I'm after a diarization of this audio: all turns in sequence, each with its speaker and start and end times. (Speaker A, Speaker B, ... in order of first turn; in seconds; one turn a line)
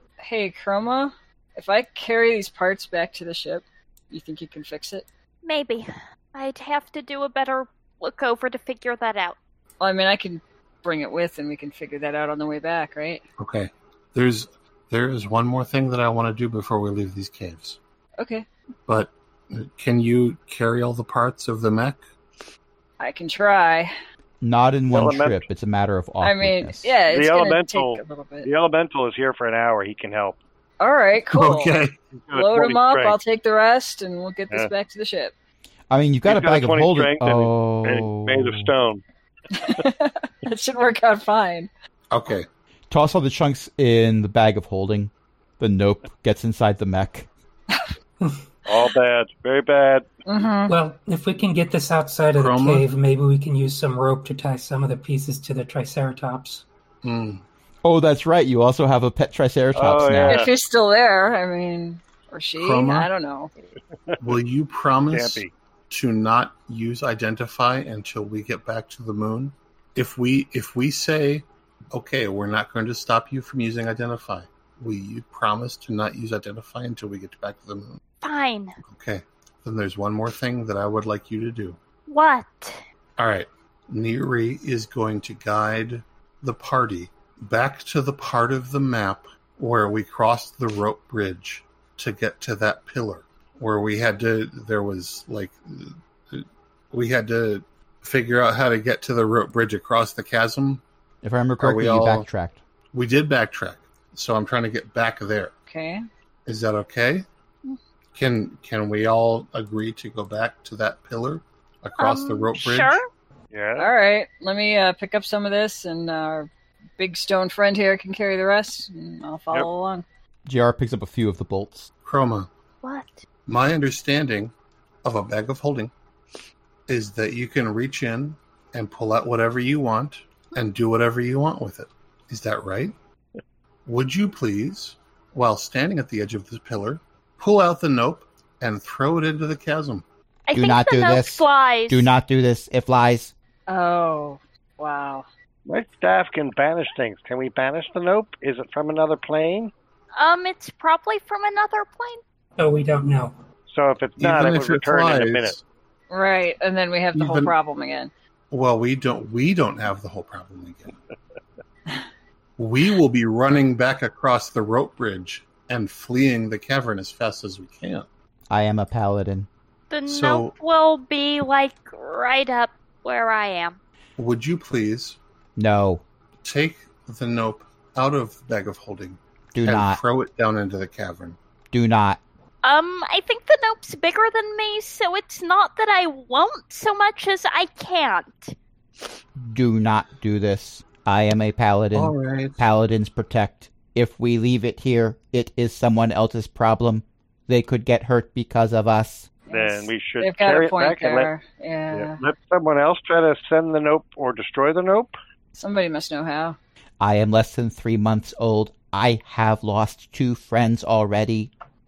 Speaker A: 0.2-5.1
Speaker B: 5.4-9.4
Speaker A: 9.8-13.2
Speaker C: 13.4-17.8
Speaker A: 18.2-18.5
Speaker C: 18.9-22.1
Speaker A: 23.0-23.9
Speaker D: 24.4-26.9
Speaker E: 24.9-25.5
Speaker A: 26.2-28.5
Speaker E: 27.1-30.4
Speaker A: 30.8-31.8
Speaker C: 31.3-32.0
Speaker E: 32.2-33.2
Speaker A: 32.3-35.3
Speaker D: 35.9-38.7
Speaker E: 36.3-39.0
Speaker A: 39.5-41.7
Speaker C: 42.1-42.5
Speaker D: 42.9-47.3
Speaker F: 48.2-48.5
Speaker E: 48.7-50.1
Speaker A: 50.3-50.8
Speaker F: 50.7-56.6
Speaker C: 52.4-52.9
Speaker C: 57.0-57.4
Speaker D: 57.8-60.5
Speaker E: 59.7-60.5
Speaker A: 60.2-63.5
Speaker C: 62.6-63.1
Speaker C: 64.2-78.0
Speaker E: 65.1-65.5
Speaker B: 78.2-78.8
Speaker C: 78.9-81.8
Speaker B: 82.1-82.8
Speaker C: 83.2-100.8
Speaker D: 101.2-102.6
Speaker C: 101.6-102.3
Speaker C: 102.9-105.5
Speaker A: 105.7-106.0
Speaker C: 106.5-107.3
Speaker C: 108.2-113.0
Speaker B: 112.0-113.1
Speaker E: 113.5-113.9
Speaker A: 113.8-120.0
Speaker D: 120.5-121.9
Speaker C: 122.0-122.5
Speaker B: 122.8-123.2
Speaker C: 123.5-125.9
Speaker C: 126.9-132.9
Speaker C: 133.8-140.1
Speaker B: 140.5-142.1
Speaker D: 140.6-143.3
Speaker A: 143.7-145.3
Speaker E: 145.7-149.7
Speaker B: 150.2-152.2
Speaker F: 152.6-153.4
Speaker E: 153.7-155.6
Speaker C: 154.2-155.6
Speaker A: 156.1-158.1
Speaker C: 157.2-157.6
Speaker C: 158.5-160.9
Speaker C: 162.6-168.1
Speaker D: 168.5-169.5
Speaker B: 169.9-173.8
Speaker C: 170.1-170.5
Speaker C: 174.2-175.2
Speaker D: 175.6-176.0
Speaker C: 176.4-181.4
Speaker D: 179.5-180.0
Speaker D: 181.7-182.2
Speaker B: 182.6-188.6
Speaker D: 189.4-199.3
Speaker C: 191.9-192.7
Speaker E: 199.5-201.3
Speaker A: 199.5-202.2
Speaker E: 201.9-205.2
Speaker A: 205.5-206.6
Speaker D: 207.0-211.5